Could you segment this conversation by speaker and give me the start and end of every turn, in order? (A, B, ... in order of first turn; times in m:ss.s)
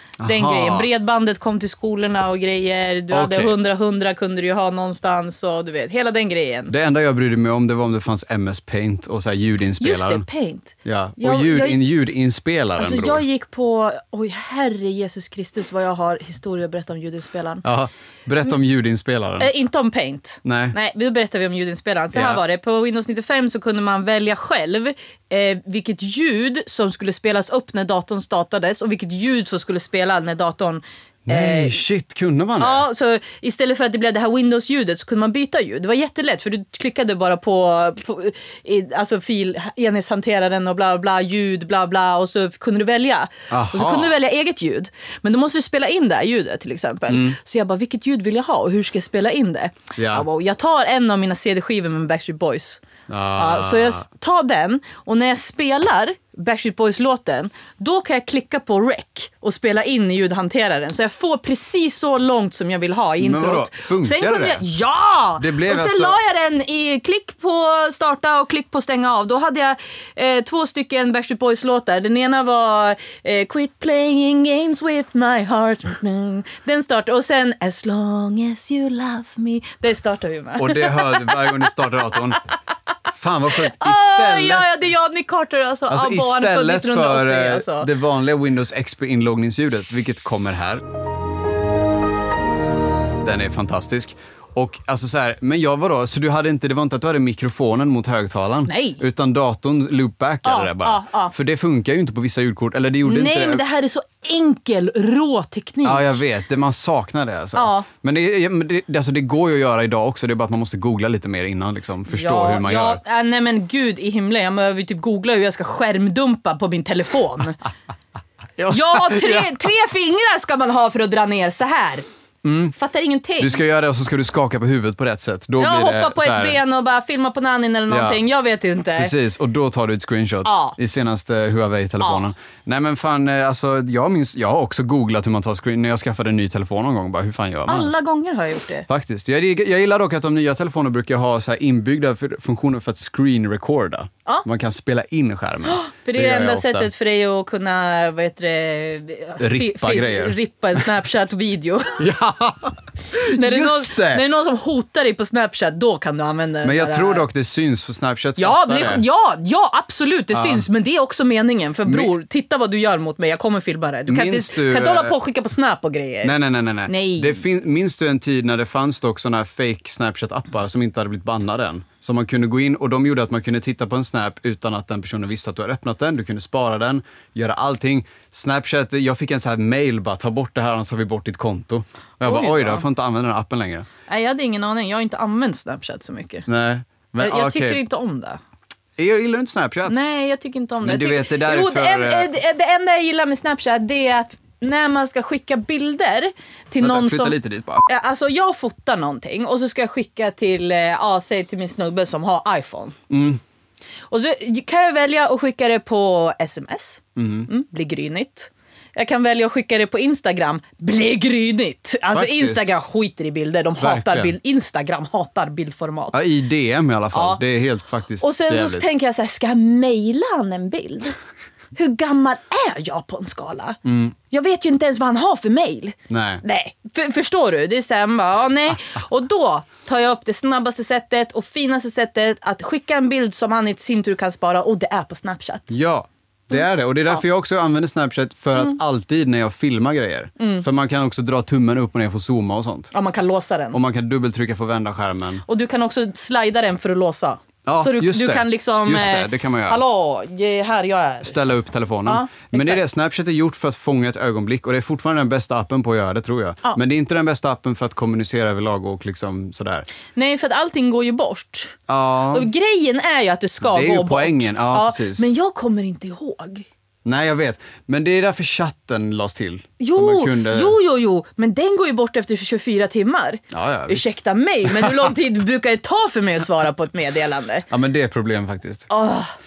0:00.2-0:00.9 A
0:00.2-0:06.7 B
0:03.1-0:03.5 A
0:06.7-0:10.2 A
0:09.8-0:11.8 B
0:10.8-0:13.2 A
0:12.8-0:17.6 B
0:17.6-0:19.5 A
0:19.4-0:31.8 B
0:20.4-0:20.8 A
0:22.1-0:22.4 A
0:31.2-0:32.8 A
0:32.6-0:52.8 B
0:43.5-0:44.1 A
0:47.1-0:47.4 A
0:50.0-0:50.2 A
0:53.1-0:54.0 A
0:53.4-1:22.1 B
1:03.2-1:04.6 A
1:05.4-1:06.2 A
1:20.6-1:22.4 A
1:23.1-1:24.7 A
1:23.5-1:27.9 B
1:25.9-1:30.8 A
1:33.2-1:43.6 A
1:38.7-1:39.0 B
1:40.4-1:41.3 B
1:43.0-1:46.2 B
1:45.8-1:53.0 A
1:47.5-1:47.9 B
1:52.1-1:57.6 B
1:58.6-1:59.5 A
1:58.7-2:02.0 B
2:02.4-2:02.8 A
2:02.7-2:03.6 B
2:03.4-2:06.6 A
2:05.6-2:09.1 B
2:07.9-2:08.2 A
2:09.0-2:18.0 A
2:10.4-2:10.8 B
2:17.7-2:18.8 B
2:18.9-2:26.9 A
2:25.7-2:32.0 B
2:29.4-2:30.4 A
2:32.0-2:34.2 A
2:33.3-2:37.2 B
2:36.6-2:39.0 A
2:38.4-2:46.3 B
2:40.3-2:40.6 A
2:41.9-2:42.1 A
2:44.1-2:45.1 A
2:46.2-3:03.9 A
2:46.9-2:47.4 B
3:02.2-3:02.8 B
3:04.1-3:06.4 B
3:06.4-3:07.8 A
3:07.2-3:08.4 B
3:09.0-3:10.0 A
3:09.9-3:23.0 B
3:10.8-3:12.3 A
3:16.8-3:17.8 A
3:23.1-3:23.4 A
3:24.1-3:36.2 B
3:27.2-3:27.5 A
3:32.1-3:32.7 A
3:33.8-3:34.3 A
3:36.1-3:38.9 A
3:37.1-3:37.4 B
3:38.2-3:41.2 B
3:41.7-3:55.7 B
3:43.8-3:44.1 A
3:46.1-3:46.4 A
3:55.7-4:02.9 A
3:56.5-3:57.2 B
4:00.4-4:00.6 B
4:02.9-4:03.8 B
4:03.7-4:05.4 A
4:05.4-4:11.4 B
4:07.6-4:09.8 A
4:11.2-4:19.9 A
4:12.0-4:12.8 B
4:20.1-4:21.8 B
4:21.9-4:22.5 A
4:22.3-4:26.7 B
4:23.6-4:25.2 A
4:27.0-4:30.8 A
4:29.8-4:37.6 B
4:33.5-4:34.0 A
4:37.7-4:38.9 A
4:38.9-4:39.3 B